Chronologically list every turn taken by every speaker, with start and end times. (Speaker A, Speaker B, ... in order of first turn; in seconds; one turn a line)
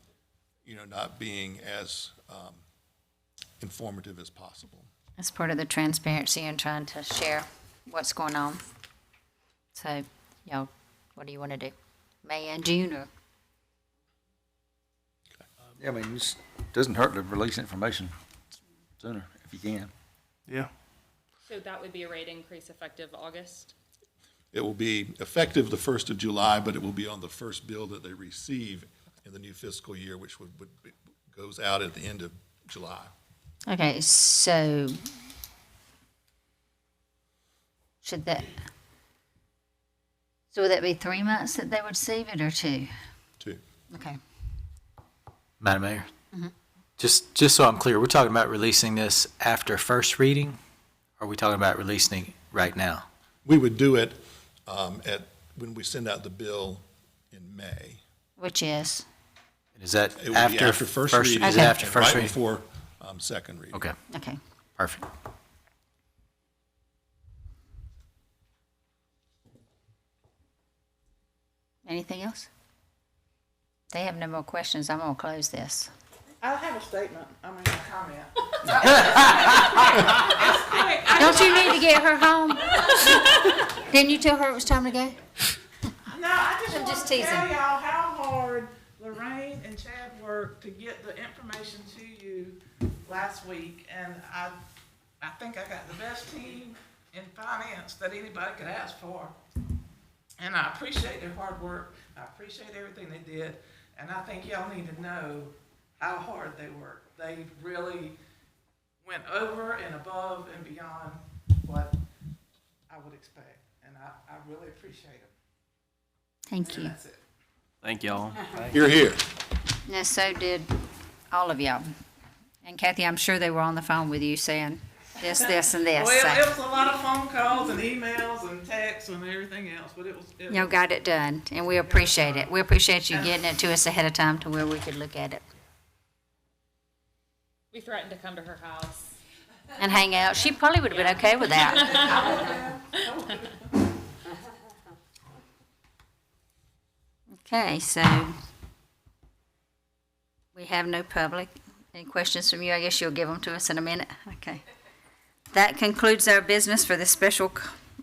Speaker A: 0.7-2.6
Speaker A: 3.6-4.9
Speaker B: 5.2-8.6
Speaker B: 9.8-11.7
Speaker B: 12.2-13.1
Speaker C: 15.8-18.1
Speaker C: 19.0-19.9
Speaker D: 21.5-23.7
Speaker A: 24.5-33.1
Speaker B: 33.7-35.0
Speaker B: 38.0-38.6
Speaker B: 40.5-42.9
Speaker B: 43.9-44.2
Speaker E: 45.6-46.1
Speaker E: 47.0-50.6
Speaker E: 51.2-53.0
Speaker A: 53.5-58.0
Speaker B: 58.4-59.0
Speaker E: 59.8-62.4
Speaker A: 60.2-63.9
Speaker B: 61.4-61.8
Speaker B: 64.1-64.4
Speaker E: 64.8-65.1
Speaker B: 71.9-72.5
Speaker B: 73.9-75.9
Speaker F: 76.4-81.9
Speaker B: 81.2-85.2
Speaker F: 82.8-83.3
Speaker F: 86.0-94.6
Speaker B: 86.7-87.5
Speaker F: 95.2-99.3
Speaker F: 100.4-108.2
Speaker F: 109.0-112.0
Speaker F: 112.9-115.3
Speaker B: 116.5-117.0
Speaker F: 116.6-117.2
Speaker A: 118.7-119.2
Speaker B: 119.9-120.7
Speaker B: 121.3-121.9
Speaker B: 122.6-126.5
Speaker F: 125.3-130.8
Speaker B: 130.5-135.4
Speaker F: 131.8-132.5
Speaker F: 133.1-133.4
Speaker D: 137.7-139.2
Speaker B: 139.8-141.9
Speaker D: 140.9-142.3
Speaker F: 141.7-143.8
Speaker B: 147.4-148.3
Speaker B: 150.6-154.6
Speaker B: 155.5-157.7